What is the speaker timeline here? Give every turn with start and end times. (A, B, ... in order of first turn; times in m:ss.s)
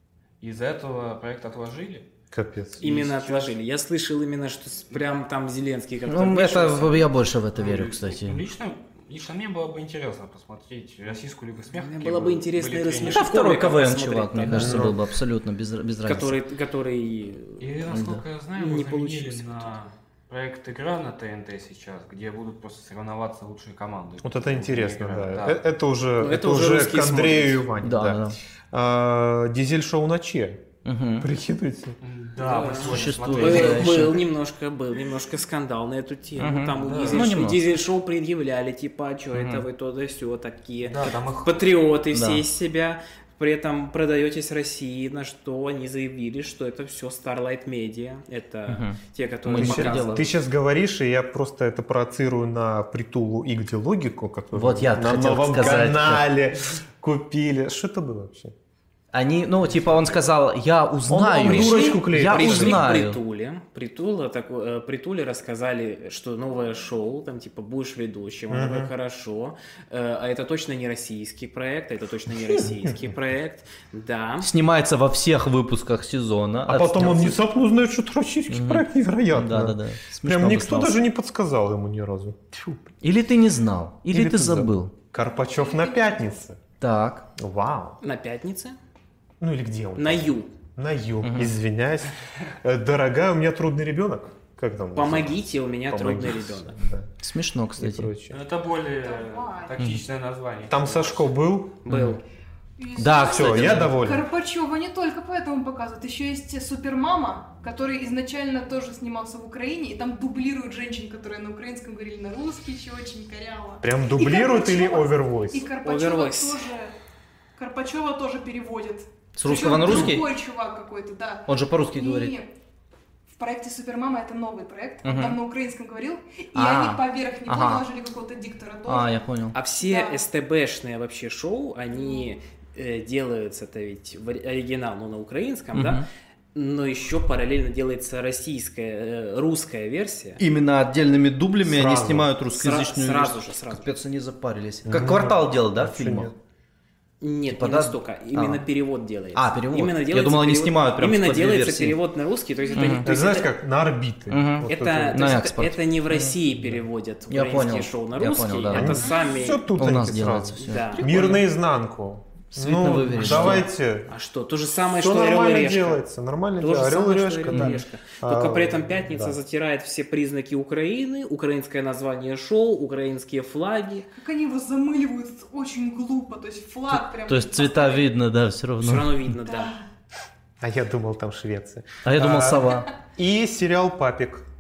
0:00.4-0:02.1 A
0:02.3-0:02.8 B
0:02.8-0:03.5 A
0:02.8-0:07.1 C
0:06.1-0:08.4 D
0:07.5-0:13.2 A
0:11.7-0:14.9 C
0:13.1-0:16.4 D
0:14.5-0:14.7 A
0:14.5-0:15.0 B
0:16.0-0:17.7 C
0:17.6-0:25.6 A
0:17.9-0:18.2 D
0:18.6-0:19.8 C
0:24.2-0:30.6 B
0:26.2-0:27.6 C
0:27.8-0:28.4 D
0:30.8-0:31.3 D
0:31.2-0:32.0 B
0:32.0-0:34.2 A
0:32.4-0:50.3 C
0:32.7-0:34.2 D
0:36.4-0:37.6 D
0:36.7-0:37.3 A
0:39.3-0:39.6 D
0:40.9-0:41.6 A
0:42.1-0:42.4 D
0:48.7-0:50.2 D
0:49.6-0:58.6 B
0:54.5-0:56.3 D
0:59.1-1:03.2 D
0:59.8-1:00.1 A
1:01.1-1:02.9 B
1:01.4-1:14.5 C
1:08.5-1:08.9 B
1:12.6-1:12.9 B
1:14.4-1:17.4 D
1:16.7-1:22.9 B
1:18.5-1:21.0 D
1:23.0-1:24.9 D
1:24.1-1:26.6 B
1:25.2-1:26.3 E
1:26.8-1:27.3 D
1:27.4-1:28.0 B
1:28.0-1:28.8 C
1:29.4-1:37.1 B
1:30.0-1:30.5 C
1:31.2-1:31.6 D
1:34.9-1:36.8 C
1:37.2-1:38.1 D
1:37.8-1:38.4 B
1:38.3-1:41.3 A
1:39.0-1:39.8 E
1:39.8-1:40.0 D
1:40.7-1:41.8 B
1:41.8-1:42.2 C
1:41.9-1:42.2 D
1:42.8-1:56.9 E
1:43.0-1:44.0 D
1:43.2-1:44.2 B
1:53.8-1:55.7 B
1:55.8-1:56.6 C
1:57.6-2:02.5 E
1:59.4-2:00.3 D
2:01.5-2:02.4 D
2:03.3-2:09.1 E
2:05.0-2:05.4 D
2:06.5-2:07.9 D
2:08.9-2:09.6 D
2:09.5-2:16.0 C
2:09.8-2:10.2 E
2:12.0-2:12.3 E
2:15.7-2:16.1 D
2:16.6-2:20.4 C
2:20.4-2:26.3 D
2:21.6-2:22.3 B
2:22.5-2:23.9 C
2:24.8-2:26.4 B
2:27.2-2:33.5 C
2:27.5-2:28.6 D
2:29.4-2:32.0 D
2:32.7-2:33.0 E
2:32.7-2:33.1 D
2:33.0-2:35.3 B
2:34.3-2:36.4 D
2:34.7-2:39.6 C
2:37.3-2:39.0 D
2:38.7-2:44.1 B
2:39.0-2:39.5 E
2:39.7-2:41.0 D
2:40.6-2:41.4 C
2:42.5-2:43.7 D
2:43.3-2:43.6 C
2:44.1-2:46.0 C
2:44.9-2:49.4 B
2:46.6-2:54.1 C
2:47.5-2:47.8 D
2:54.1-2:58.1 E
2:56.9-2:59.4 D
2:58.8-2:59.8 C
2:59.5-2:59.8 E
3:00.6-3:04.4 B
3:02.0-3:02.9 D